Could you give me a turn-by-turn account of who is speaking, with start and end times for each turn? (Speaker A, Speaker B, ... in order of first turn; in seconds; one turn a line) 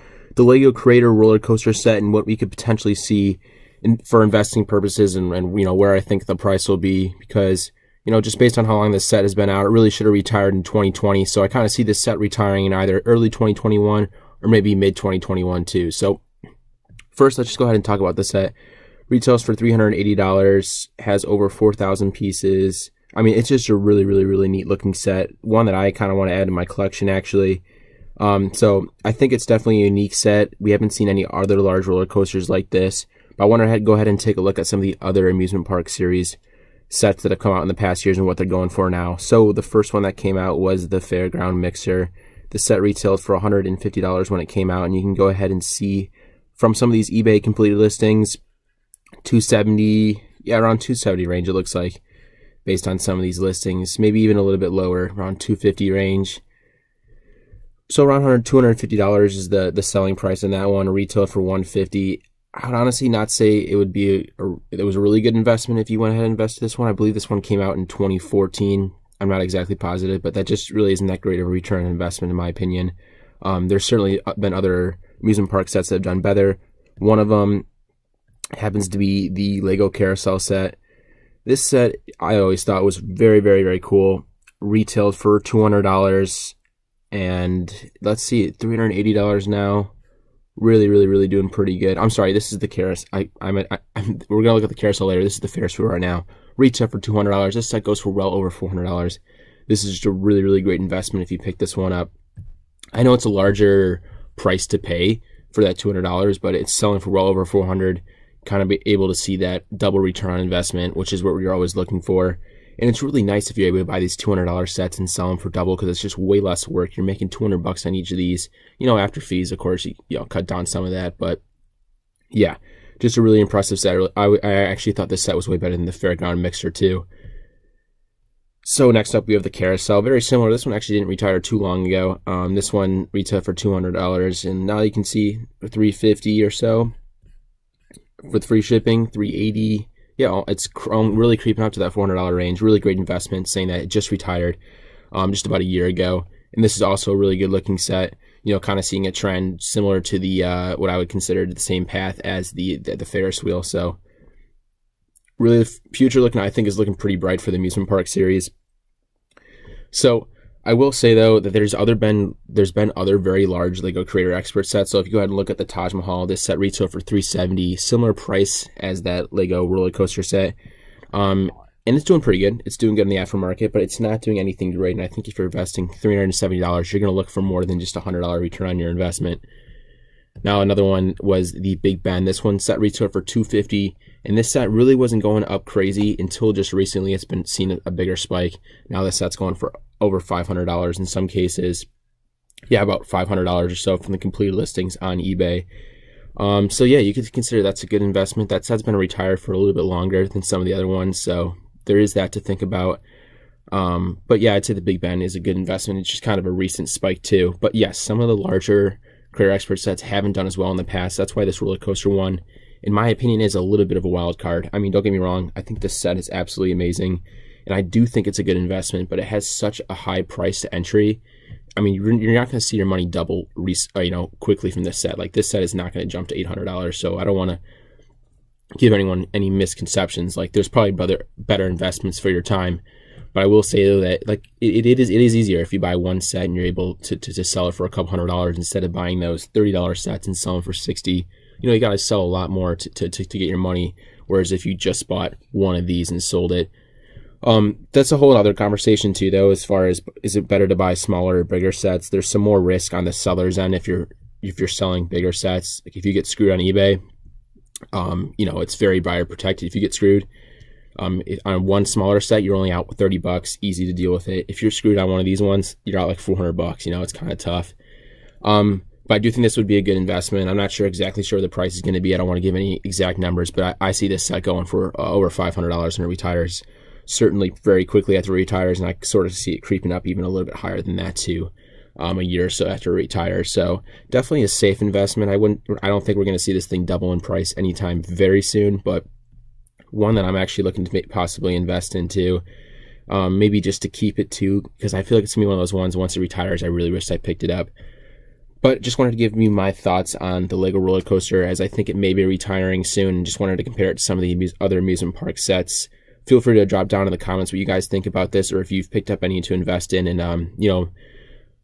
Speaker A: 0.3-16.2
Speaker A: 17.1-18.5
Speaker A: 19.1-27.6
Speaker A: 28.2-36.4
Speaker A: 36.9-48.4
Speaker A: 49.2-52.0
Speaker A: 52.6-56.4
Speaker A: 57.9-77.7
Speaker A: 78.5-80.8
Speaker A: 81.5-86.6
Speaker A: 87.1-89.9
Speaker A: 90.6-102.1
Speaker A: 103.0-121.4
Speaker A: 122.3-127.1
Speaker A: 128.7-136.9
Speaker A: 138.2-144.6
Speaker A: 145.1-154.0
Speaker A: 155.4-158.5
Speaker A: 159.9-170.6
Speaker A: 171.1-179.4
Speaker A: 180.4-191.9
Speaker A: 192.7-195.7
Speaker A: 196.4-203.0
Speaker A: 203.7-221.2
Speaker A: 221.8-227.6
Speaker A: 228.8-232.8
Speaker A: 233.3-246.7
Speaker A: 247.4-257.0
Speaker A: 257.9-260.3
Speaker A: 261.0-267.8
Speaker A: 268.4-289.1
Speaker A: 289.9-292.4
Speaker A: 293.1-297.7
Speaker A: 298.6-310.9